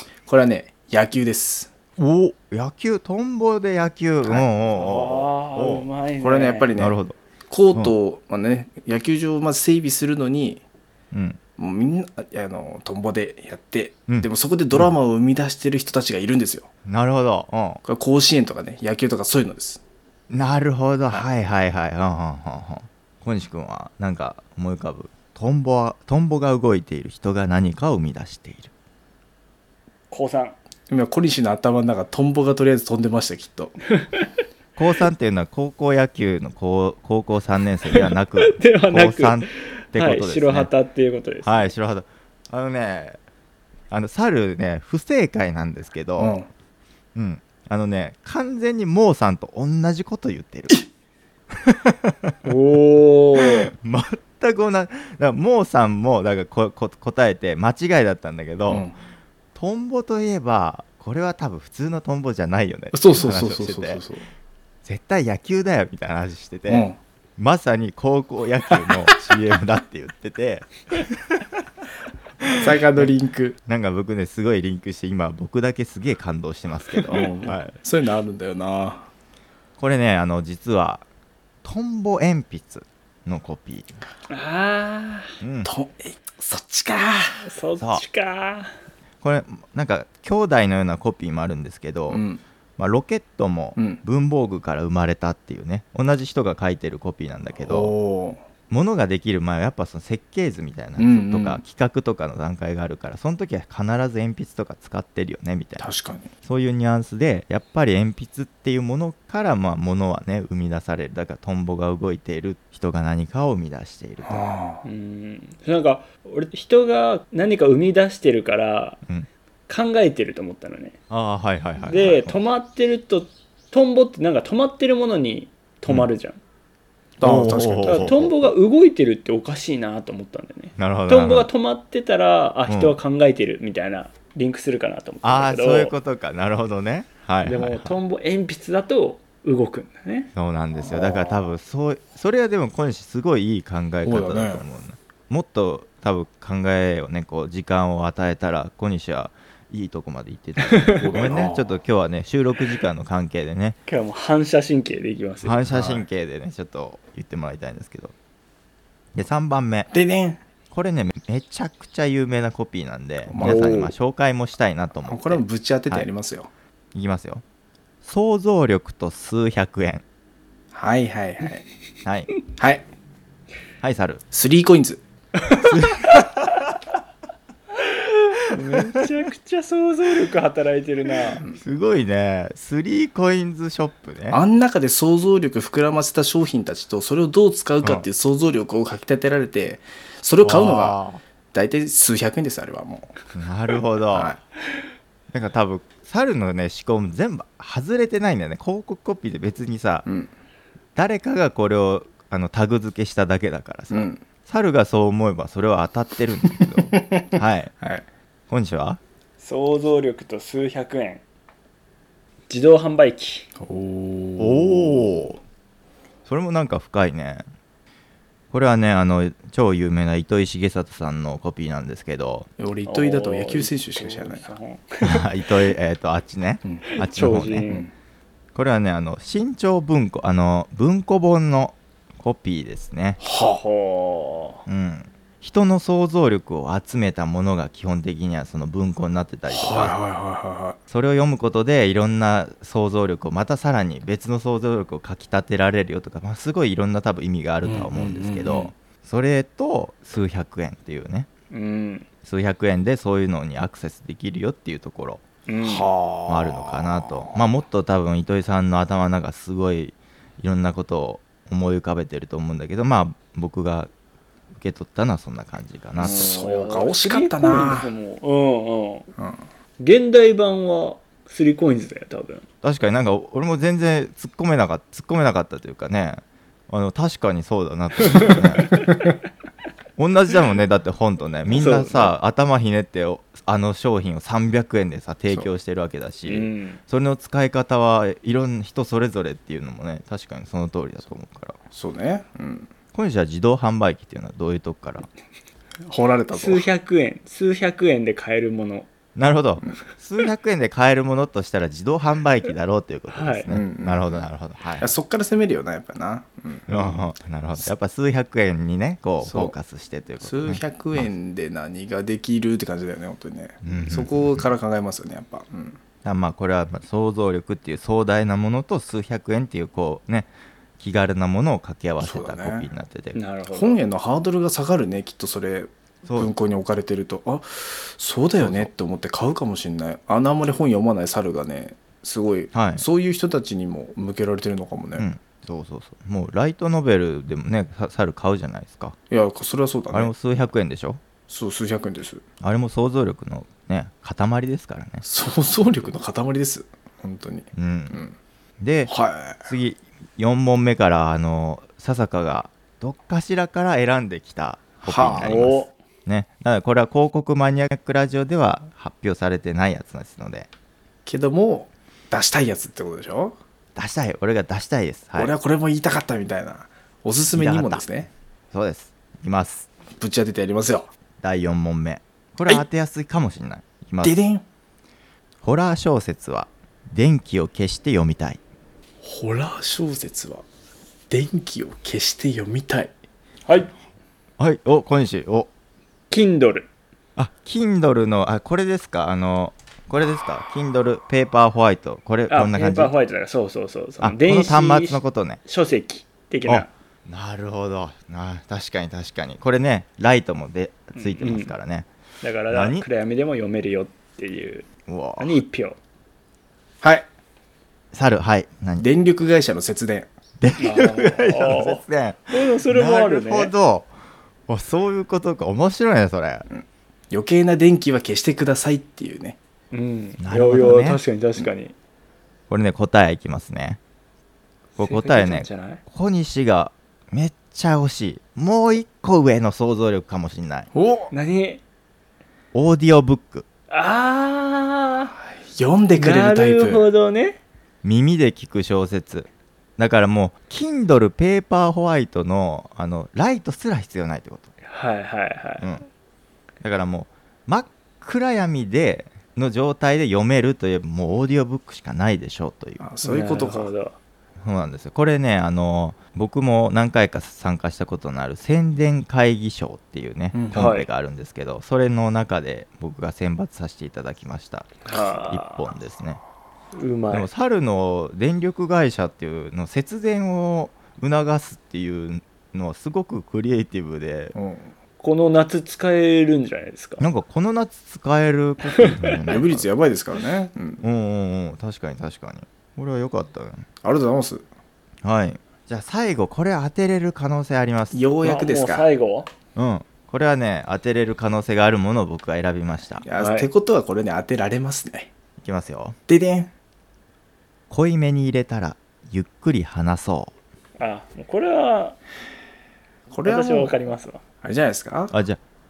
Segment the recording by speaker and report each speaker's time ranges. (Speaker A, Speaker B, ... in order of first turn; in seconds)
Speaker A: 0.2-1.7, 6.2-7.0, 7.5-10.6, 11.6-16.7, 17.9-19.8, 30.9-33.8, 46.2-46.5, 58.7-59.0, 62.9-64.2, 66.7-67.0, 72.5-73.6, 77.1-79.1, 85.6-87.4, 92.1-92.4, 93.8-94.0, 97.6-98.4, 101.0-101.6, 105.8-106.3, 114.2-114.8, 127.2-128.2, 140.9-141.4, 144.0-144.6, 151.0-151.7, 155.7-156.1, 159.9-160.4, 163.3-163.8, 165.1-166.5, 170.7-171.6, 172.6-172.8, 174.3-175.0, 184.3-191.0, 191.5-193.2, 194.1-194.4, 203.9-204.2, 206.6-208.0, 213.6-215.1, 222.6-224.5, 233.2-233.6, 239.5-240.8, 247.6-248.7, 255.6-257.4, 266.0-267.9, 269.2-269.4, 291.7-292.7, 295.9-296.6, 303.5-304.2, 304.8-307.1, 309.2-309.5, 310.2-315.8, 322.0-322.7, 323.5-335.1, 339.1-340.1, 341.3-342.2, 345.0-348.1, 348.9-349.5, 354.8-355.5, 361.1-363.4, 365.2-368.1, 370.0-370.9, 374.0-374.4, 379.0-380.4, 381.1-382.9, 408.8-410.1, 416.5-419.4, 430.7-431.1, 435.4-436.9, 452.8-453.7, 460.3-460.7, 474.4-474.7, 479.3-480.8, 483.8-484.4, 487.9-488.9, 493.0-495.1, 496.1-496.5, 503.1-503.8, 504.4-505.1
Speaker B: 2.0-5.9, 6.8-7.2, 11.1-11.4, 14.1-14.9, 16.9-17.8, 20.3-28.7, 34.8-40.7, 41.4-43.2, 43.9-46.4, 47.1-50.8, 51.5-52.4, 53.4-58.9, 59.5-64.0, 64.8-71.6, 72.4-73.1, 73.7-77.7, 79.8-81.0, 81.6-84.0, 85.4-85.7, 87.8-88.0, 89.2-92.2, 92.8-97.9, 98.7-105.9, 106.4-114.5, 121.1-122.4, 127.2-128.4, 130.8-131.5, 132.7-133.0, 135.2-138.0, 140.3-153.8, 155.4-158.1, 159.1-159.9, 160.7-166.1, 166.9-167.4, 168.0-170.0, 172.1-172.3, 173.8-174.2, 175.6-176.7, 181.5-184.4, 190.4-191.2, 193.3-194.4, 195.3-200.1, 201.0-207.7, 208.5-209.0, 214.4-215.4, 216.2-217.5, 218.5-222.5, 225.0-227.7, 228.6-233.2, 234.7-240.0, 240.9-251.3, 252.2-255.2, 256.3-263.9, 264.5-266.3, 272.6-278.8, 280.0-291.6, 292.9-295.1, 299.1-304.9, 306.7-311.1, 313.6-314.5, 316.0-323.2, 326.0-326.3, 328.4-328.7, 332.5-332.9, 335.0-339.0, 339.9-341.0, 342.4-345.0, 347.5-348.0, 348.6-348.9, 349.4-360.5, 363.8-365.3, 367.3-367.9, 368.5-369.7, 371.2-374.1, 375.4-378.4, 384.4-385.5, 387.2-392.9, 394.0-395.4, 396.5-401.9, 402.5-402.9, 404.9-405.4, 407.9-408.9, 410.4-413.9, 414.5-416.5, 420.2-421.0, 422.5-423.8, 424.8-430.7, 432.5-433.5, 437.8-444.5, 445.6-445.9, 446.6-452.8, 454.4-466.2, 467.1-474.4, 477.0-479.7, 480.8-483.7, 485.0-488.0, 489.5-493.0, 495.4-496.0, 497.7-500.3, 505.1-505.4
Speaker C: 4.7-6.7, 30.1-30.6, 34.0-34.3, 37.9-41.7, 52.4-53.7, 77.0-77.3, 84.3-85.4, 87.4-88.7, 114.8-119.0, 119.7-121.0, 121.8-126.4, 127.8-135.9, 137.4-140.3, 150.6-151.2, 153.9-155.6, 163.4-163.9, 177.8-181.4, 209.4-211.2, 212.5-213.5, 222.9-225.3, 226.8-227.9, 233.4-234.6, 251.5-252.1, 255.5-255.9, 266.0-269.1, 269.8-272.4, 278.1-278.4, 281.5-282.1, 286.2-286.8, 296.3-298.9, 303.1-303.5, 323.1-323.8, 355.1-355.7, 383.5-383.7, 386.1-386.7, 392.3-396.7, 401.0-401.5, 402.2-404.7, 405.2-405.8, 410.6-413.5, 419.7-421.8, 424.8-425.8, 431.1-431.6, 433.7-435.1, 436.0-437.4, 444.6-445.7, 453.0-454.0, 460.5-460.9, 464.9-465.7, 466.7-467.3, 475.0-477.0, 488.2-489.3, 493.2-493.5, 500.8-502.0, 503.2-504.2